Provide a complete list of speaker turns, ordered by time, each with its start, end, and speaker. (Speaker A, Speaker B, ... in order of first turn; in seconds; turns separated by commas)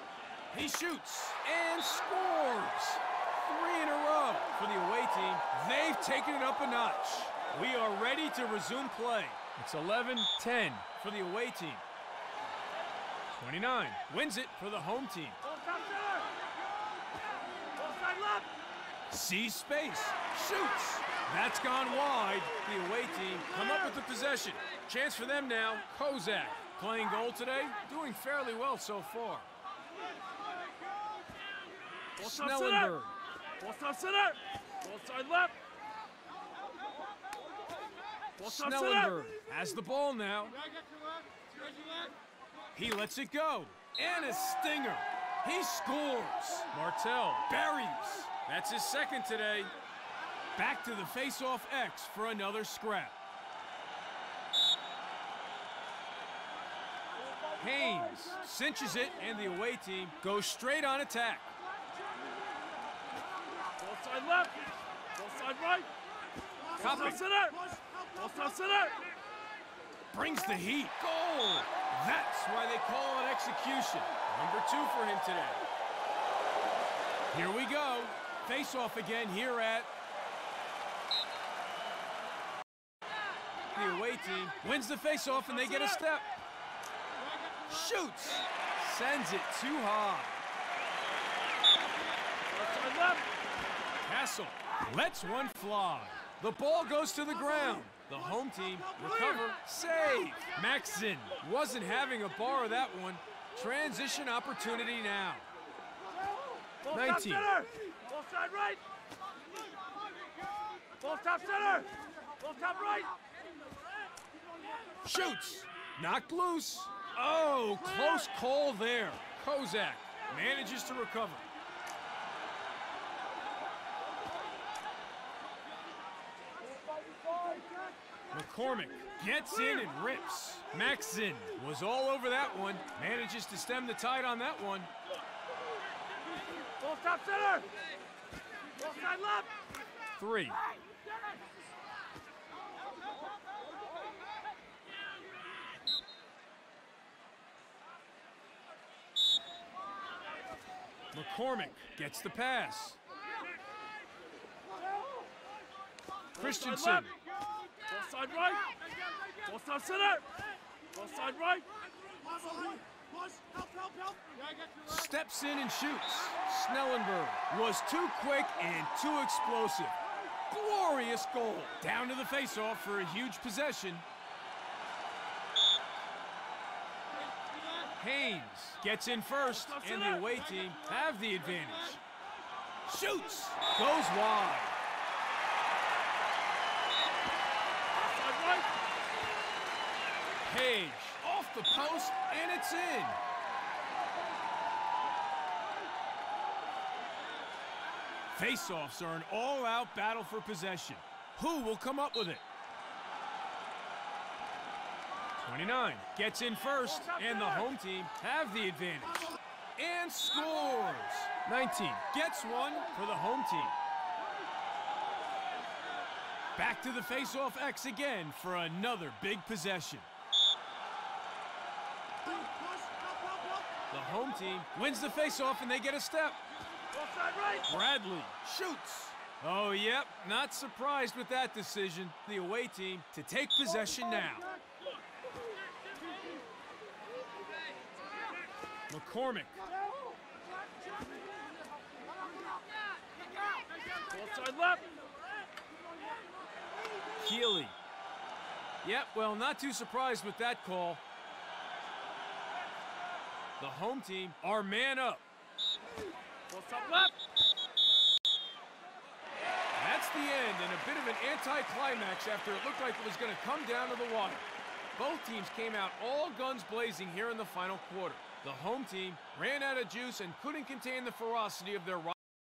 Speaker A: 0.5-11.8, Speaker A: 13.3-15.4, Speaker B: 15.4-16.3, Speaker B: 17.7-18.5, Speaker A: 19.1-29.5, Speaker A: 32.2-33.1, Speaker B: 32.2-33.0, Speaker B: 33.6-35.5, Speaker A: 38.4-40.6, Speaker B: 38.4-39.1, Speaker A: 42.8-49.7, Speaker A: 50.6-53.1, Speaker A: 57.6-61.5, Speaker B: 63.7-64.6, Speaker B: 65.1-65.9, Speaker B: 66.8-69.0, Speaker A: 66.8-67.2, Speaker A: 70.1-75.7, Speaker A: 77.3-79.9, Speaker A: 83.8-86.3, Speaker A: 87.7-90.4, Speaker B: 92.5-93.3, Speaker A: 94.0-105.5, Speaker B: 106.8-108.8, Speaker A: 106.9-107.7, Speaker B: 111.0-113.2, Speaker A: 115.0-121.4, Speaker B: 127.3-127.6, Speaker A: 128.3-134.9, Speaker B: 136.5-137.7, Speaker B: 138.8-139.5, Speaker A: 140.2-140.6, Speaker A: 151.1-153.0, Speaker A: 156.3-157.1, Speaker B: 157.9-158.7, Speaker B: 159.4-160.2, Speaker B: 160.9-161.7, Speaker B: 162.2-162.8, Speaker A: 164.8-170.0, Speaker A: 170.5-174.1, Speaker A: 178.0-182.0, Speaker B: 179.7-180.1, Speaker A: 182.9-184.8, Speaker B: 187.9-188.7, Speaker A: 190.4-193.2, Speaker A: 198.3-202.4, Speaker A: 205.4-213.8, Speaker B: 206.9-207.7, Speaker A: 216.6-220.1, Speaker A: 223.9-226.4, Speaker B: 226.9-227.7, Speaker A: 227.7-234.5, Speaker A: 238.9-239.6, Speaker B: 244.1-244.9, Speaker A: 247.2-247.8, Speaker A: 248.8-251.0, Speaker A: 253.6-255.2, Speaker B: 256.5-257.1, Speaker A: 259.8-264.5, Speaker A: 265.0-272.2